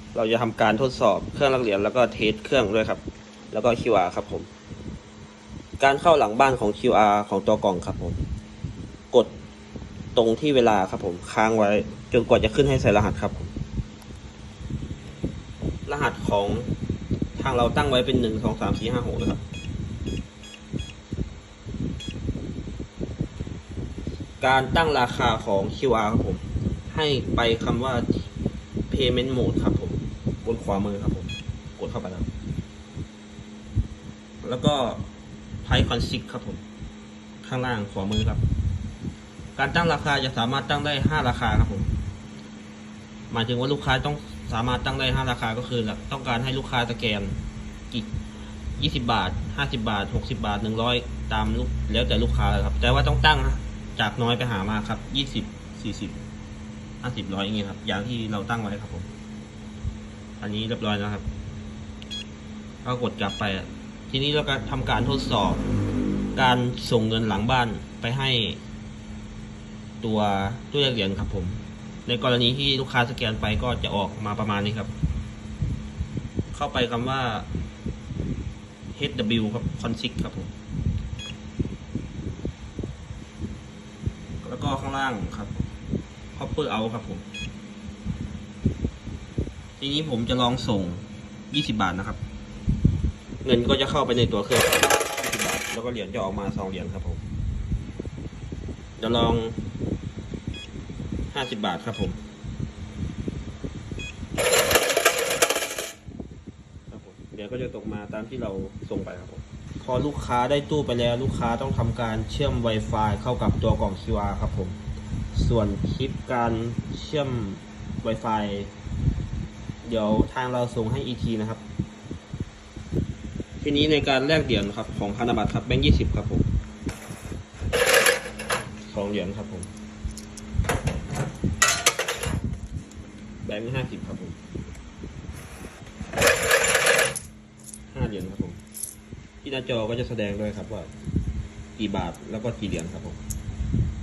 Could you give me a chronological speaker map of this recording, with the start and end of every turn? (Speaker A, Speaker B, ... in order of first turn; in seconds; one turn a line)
Speaker A: 0.1-4.5
Speaker A: 5.8-8.2
Speaker A: 10.1-13.5
Speaker A: 15.8-16.7
Speaker A: 17.3-19.4
Speaker A: 24.4-28.3
Speaker A: 28.9-32.3
Speaker A: 34.4-35.1
Speaker A: 35.6-36.6
Speaker A: 37.4-38.4
Speaker A: 39.5-41.9
Speaker A: 43.3-48.1
Speaker A: 48.8-56.2
Speaker A: 57.0-59.1
Speaker A: 60.4-61.3
Speaker A: 62.8-65.6
Speaker A: 66.3-68.6
Speaker A: 70.0-74.9
Speaker A: 76.5-77.5
Speaker A: 78.9-80.5
Speaker A: 84.4-85.7
Speaker A: 86.3-87.2
Speaker A: 89.8-92.2
Speaker A: 93.4-97.2
Speaker A: 99.0-99.6
Speaker A: 101.3-102.2
Speaker A: 106.9-114.8
Speaker A: 115.3-118.7
Speaker A: 119.8-121.6
Speaker A: 123.6-126.5
Speaker A: 128.8-129.7
Speaker A: 133.4-134.4
Speaker A: 137.9-138.6
Speaker A: 139.4-140.9
Speaker A: 141.8-143.2